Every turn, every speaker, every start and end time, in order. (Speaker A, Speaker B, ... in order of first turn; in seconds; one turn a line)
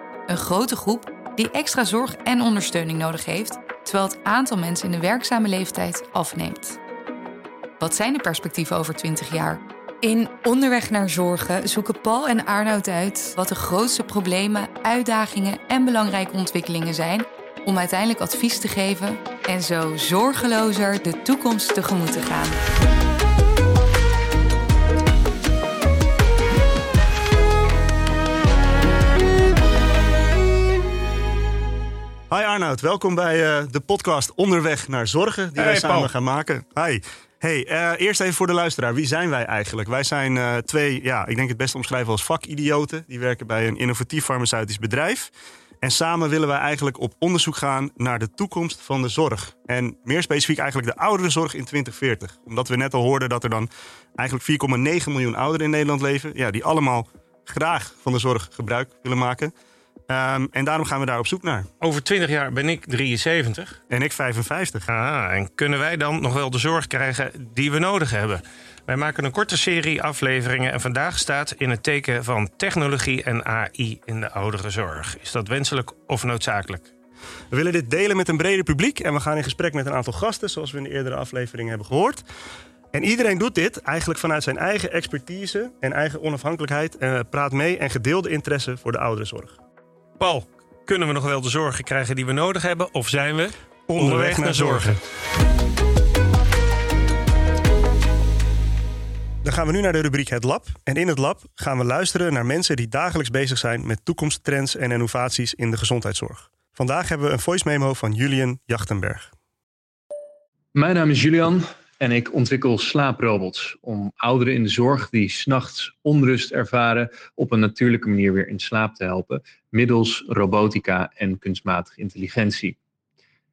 Speaker A: 0.3-6.8
Speaker A: 7.8-22.6
Speaker B: 32.3-45.3
Speaker C: 35.5-36.1
Speaker B: 45.8-59.5
Speaker B: 60.1-61.7
Speaker C: 61.8-63.8
Speaker B: 63.9-64.9
Speaker C: 64.9-76.9
Speaker B: 77.5-82.2
Speaker B: 82.9-89.6
Speaker C: 90.2-95.0
Speaker B: 93.9-95.0
Speaker B: 99.4-109.3
Speaker D: 110.8-122.8